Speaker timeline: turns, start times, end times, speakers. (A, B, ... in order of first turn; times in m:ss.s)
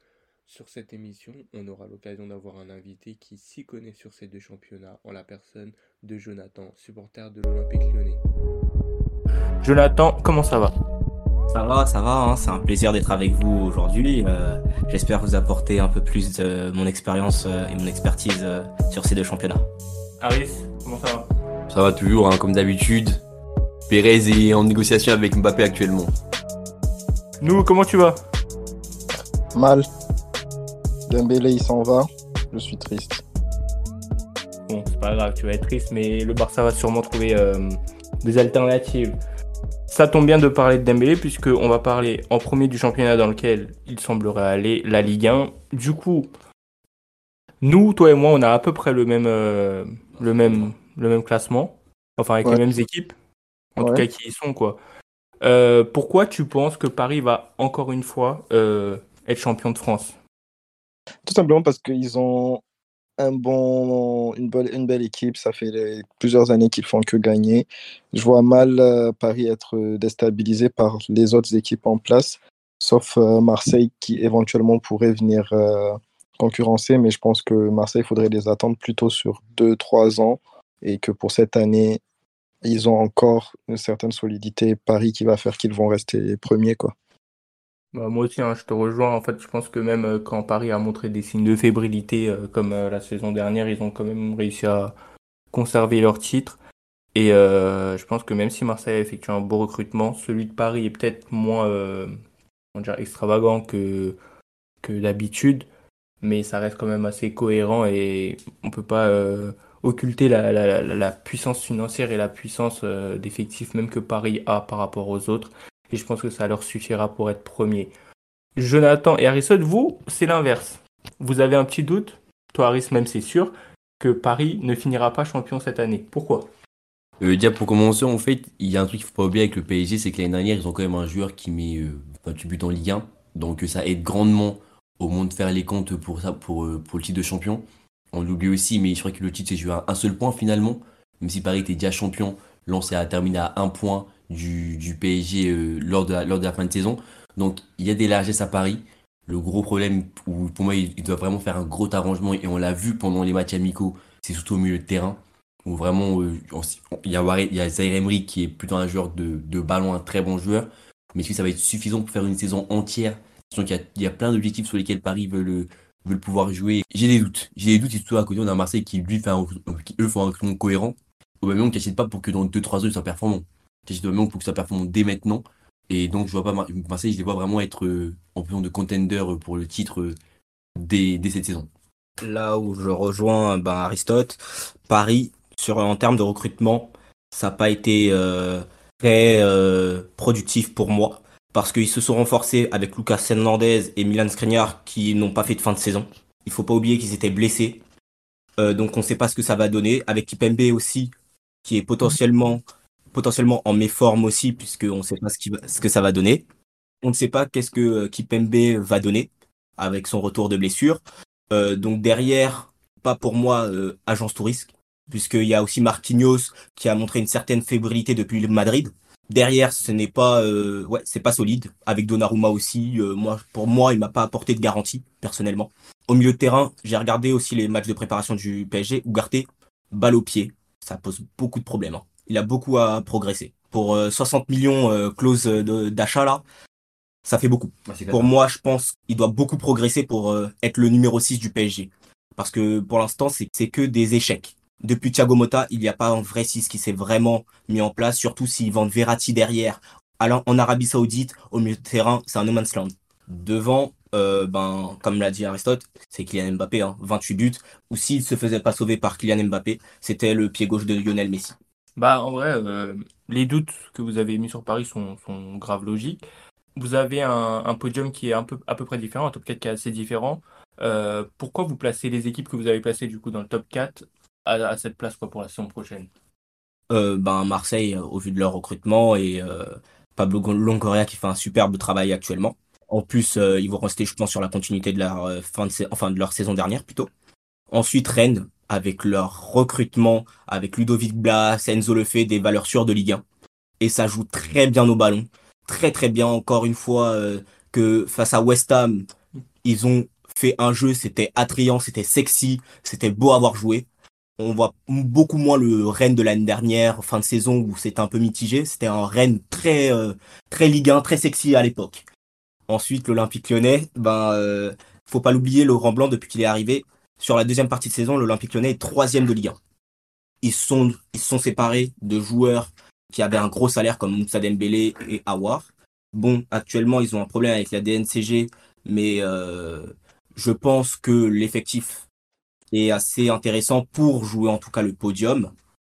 0:00.5-0:08.2 A
0:09.6-0:10.7 B
0:11.5-0:19.7 C
0:20.2-0:21.3 B
0:21.7-0:23.2 D
0:23.9-0:26.1 D
0:27.4-0:28.2 B
0:29.5-0:29.9 E
0:31.1-0:33.2 E
0:34.7-0:39.2 B
0:39.9-0:46.3 B
0:47.6-0:53.1 B
0:53.8-0:54.8 B
0:53.8-0:54.0 E
0:55.4-1:00.2 B
1:01.3-1:02.6 E
1:03.2-1:22.0 E
1:22.6-1:26.9 E
1:27.9-1:34.9 B
1:35.5-1:36.6 B
1:37.2-1:42.1 B
1:42.8-1:44.2 B
1:44.8-1:45.7 B
1:46.2-1:57.9 B
1:58.6-2:06.5 B
2:07.2-3:00.2 D
3:00.8-3:01.7 D
3:02.2-3:17.8 C
3:18.6-3:21.1 C
3:21.6-3:26.4 C
3:27.0-3:56.4 C
3:57.2-4:21.6 C
3:57.9-3:58.3 D
4:22.0-4:26.2 B
4:26.8-4:36.1 B
4:36.9-4:47.1 C
4:47.7-4:53.2 C
4:53.8-4:59.1 C
4:59.6-5:03.9 C
5:04.4-5:12.1 C
5:12.7-5:19.6 C
5:20.4-5:32.1 C
5:32.7-5:35.5 C